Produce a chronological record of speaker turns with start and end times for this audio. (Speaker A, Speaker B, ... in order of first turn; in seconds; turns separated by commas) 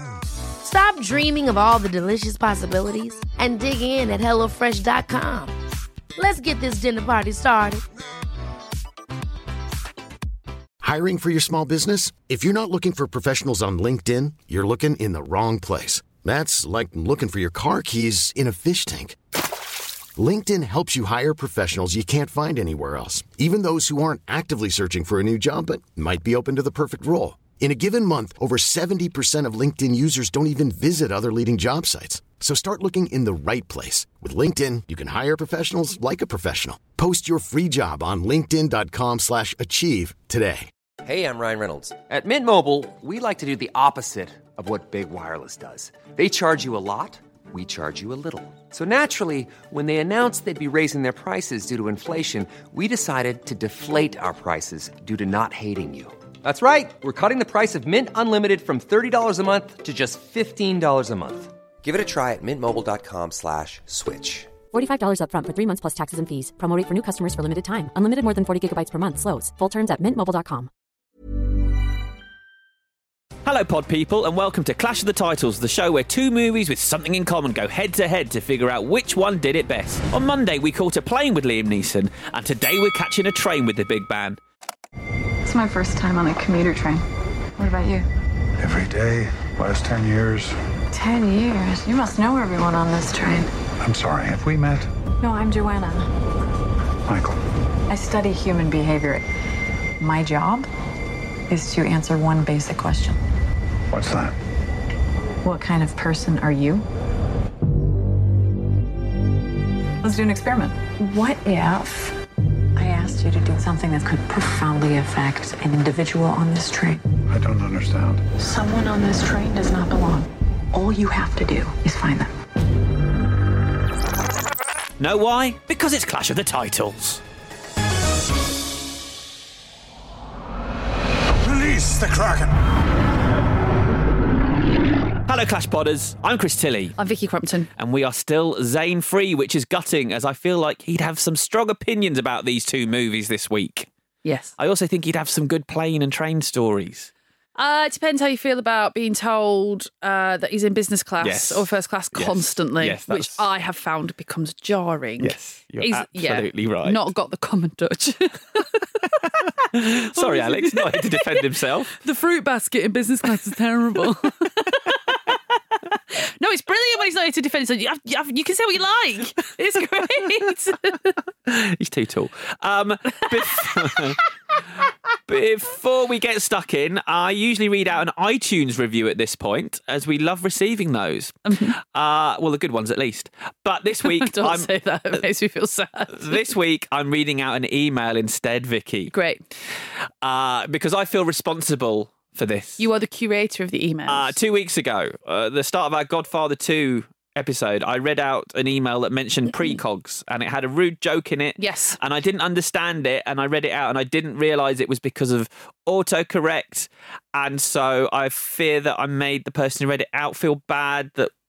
Speaker A: 0.6-5.5, Speaker A: 6.2-7.8, Speaker B: 10.8-19.2, Speaker B: 20.2-40.7, Speaker C: 41.0-64.6, Speaker D: 64.7-70.7, Speaker E: 73.4-84.4, Speaker F: 85.4-87.0, Speaker F: 87.6-88.1, Speaker G: 88.6-90.5, Speaker F: 90.9-93.5, Speaker G: 93.8-94.9, Speaker F: 95.2-96.1, Speaker G: 97.1-97.4, Speaker F: 97.9-99.2, Speaker F: 100.0-100.7, Speaker F: 101.5-103.2, Speaker G: 103.9-104.4, Speaker F: 105.4-106.8, Speaker F: 110.0-112.2, Speaker F: 112.7-117.0, Speaker G: 117.3-118.2, Speaker F: 118.4-122.3, Speaker E: 125.0-127.2, Speaker G: 131.4-132.5, Speaker E: 135.3-137.0, Speaker H: 137.0-137.7, Speaker E: 137.8-143.9, Speaker H: 144.2-144.5, Speaker E: 144.6-147.1, Speaker H: 147.6-158.9, Speaker E: 151.2-153.4, Speaker E: 155.2-157.1, Speaker E: 159.7-161.9, Speaker H: 159.8-165.2, Speaker H: 166.1-171.2, Speaker E: 171.4-174.2, Speaker H: 173.5-173.9, Speaker E: 175.3-181.4, Speaker H: 181.5-181.7, Speaker E: 181.9-184.7, Speaker H: 184.0-186.5, Speaker E: 186.1-189.1, Speaker H: 189.1-189.4, Speaker E: 190.2-192.8, Speaker H: 192.8-194.3, Speaker E: 194.1-211.3, Speaker H: 201.6-202.0